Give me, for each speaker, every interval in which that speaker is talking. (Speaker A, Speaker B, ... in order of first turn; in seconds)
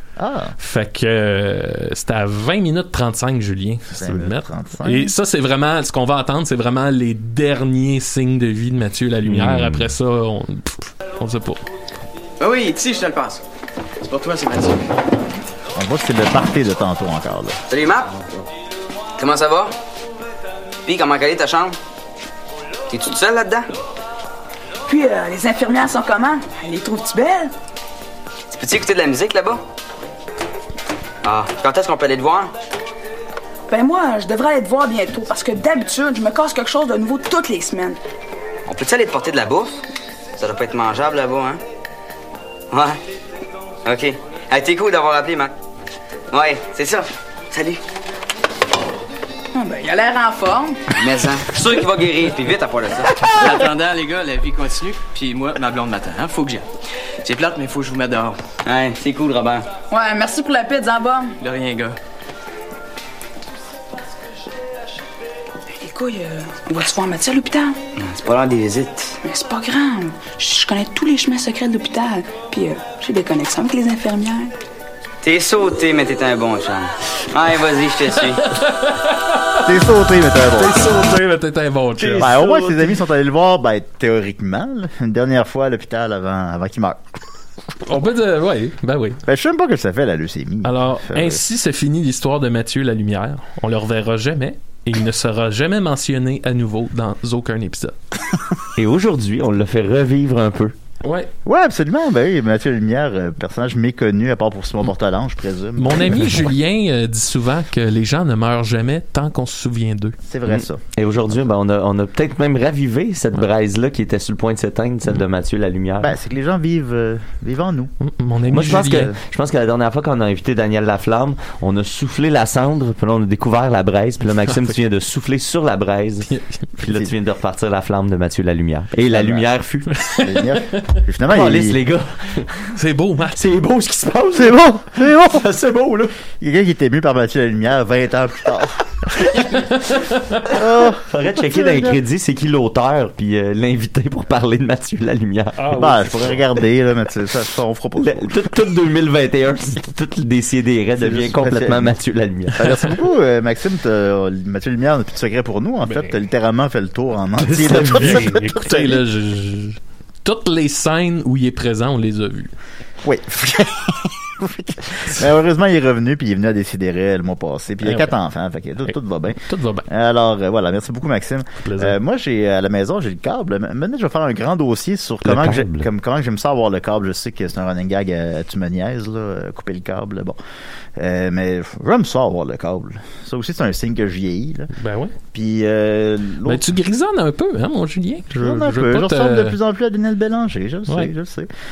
Speaker A: 0.2-0.6, 3.9-5.1, 15.7-17.6, 79.6-80.9, 82.2-87.0, 89.2-91.4, 101.4-106.5, 110.2-111.4, 116.0-117.9, 118.5-119.1, 126.8-127.1, 129.1-129.5, 130.1-131.8, 134.3-135.4, 136.4-139.4, 140.5-142.0, 145.7-148.5, 150.9-152.0, 152.5-159.0, 163.0-180.4, 180.9-184.7, 185.3-186.7, 188.3-191.5
Speaker B: 0.6-11.6, 78.4-79.7, 80.5-82.4, 87.8-89.2, 90.6-97.9, 101.0-101.3, 105.8-110.2, 118.0-119.1, 126.3-126.6, 130.0-131.0, 132.7-133.4, 139.7-140.4, 145.6-146.4, 155.8-156.1, 157.9-162.5, 167.8-168.1, 168.8-169.9, 171.6-172.0, 184.7-185.1, 186.4-189.6
Speaker C: 9.2-9.9, 82.0-82.8, 98.8-100.7, 110.5-116.1, 118.5-129.9, 131.3-132.5, 133.3-136.2, 140.9-145.7, 148.0-152.6, 157.4-158.3, 175.2-175.9
Speaker D: 12.4-13.4, 14.0-14.8, 53.3-56.6, 57.2-58.4, 61.4-62.0
Speaker E: 17.7-18.2, 19.2-19.7, 20.9-21.7, 22.9-23.7, 28.5-29.6, 31.2-32.5, 38.7-39.8, 40.4-41.6, 42.7-43.0, 43.8-45.5, 46.3-47.8, 50.9-53.3, 58.6-59.7, 68.0-69.2, 75.2-78.4
Speaker F: 24.9-27.5, 33.7-38.0, 49.5-50.8, 59.9-61.4, 65.8-67.8, 69.2-74.5